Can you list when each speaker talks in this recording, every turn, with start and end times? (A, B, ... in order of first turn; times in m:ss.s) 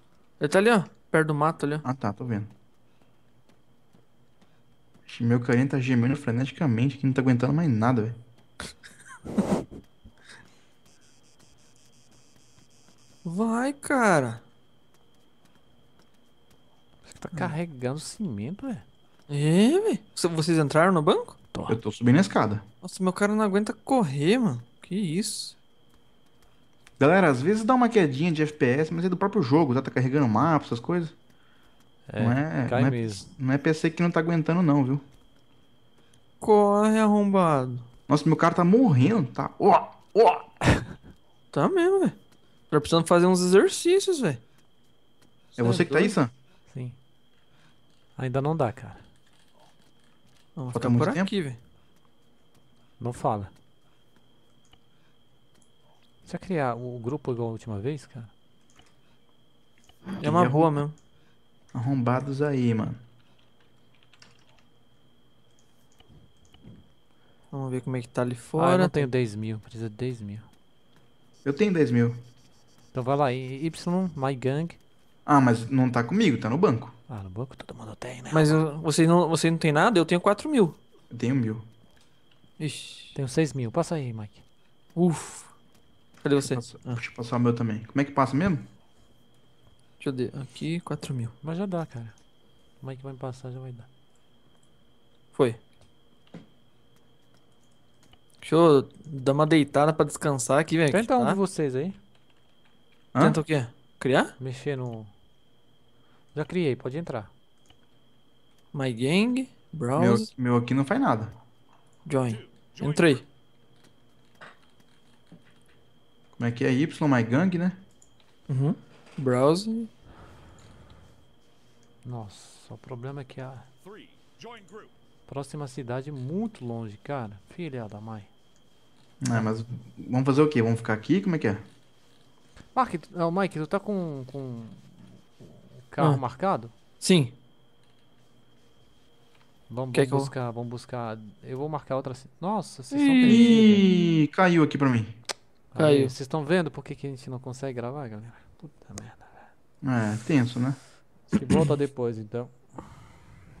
0:00.4-0:01.8 A
0:01.8-0:02.5 B
0:05.0-0:08.2 B
0:13.2-0:14.4 A
0:17.0-0:18.8 C
0:19.3-0:21.4 A
0:21.5-0:21.8 C
0:21.7-0:22.6 B
0:22.8-0:25.6 A
0:27.0-0:31.1 B
0:32.1-0:33.3 C
0:32.2-0:35.0 B
0:36.4-0:37.8 A
0:38.1-0:40.5 B
0:41.5-0:42.2 A
0:42.7-0:44.4 A
0:45.6-0:46.3 B
0:45.6-0:46.1 A
0:46.7-0:47.0 C
0:48.2-0:49.0 C
0:50.6-0:51.6 A
0:50.7-0:51.3 B
0:53.0-0:53.5 C
0:56.2-0:58.3 C
1:00.2-1:00.7 B
1:00.2-1:00.9 A
1:01.7-1:03.0 B
1:07.5-1:09.1 A
1:08.6-1:10.4 C
1:11.4-1:12.2 B
1:12.9-1:14.8 C
1:15.2-1:17.0 B
1:17.1-1:18.6 C
1:18.3-1:20.8 A
1:21.1-1:21.6 B
1:22.6-1:23.1 A
1:23.1-1:24.4 C
1:25.0-1:25.5 A
1:26.2-1:27.0 A
1:26.4-1:28.7 B
1:30.0-1:31.3 A
1:31.4-1:32.1 C
1:32.8-1:33.9 C
1:35.3-1:35.6 A
1:38.4-1:41.4 A
1:40.9-1:42.0 C
1:43.1-1:43.4 B
1:43.2-1:44.3 A
1:44.4-1:45.1 C
1:46.3-1:47.3 C
1:48.7-1:50.3 A
1:50.0-1:51.4 B
1:52.0-1:53.2 A
1:56.4-1:57.8 B
1:58.5-1:59.9 A
2:02.0-2:03.7 C
2:05.3-2:08.3 C
2:09.2-2:11.6 B
2:12.7-2:14.9 C
2:15.9-2:16.7 C
2:17.0-2:17.3 A
2:19.7-2:23.8 C
2:19.9-2:20.3 A
2:22.9-2:23.6 A
2:23.3-2:25.2 B
2:25.7-2:29.3 C
2:25.8-2:26.1 A
2:29.8-2:30.8 B
2:31.3-2:32.5 C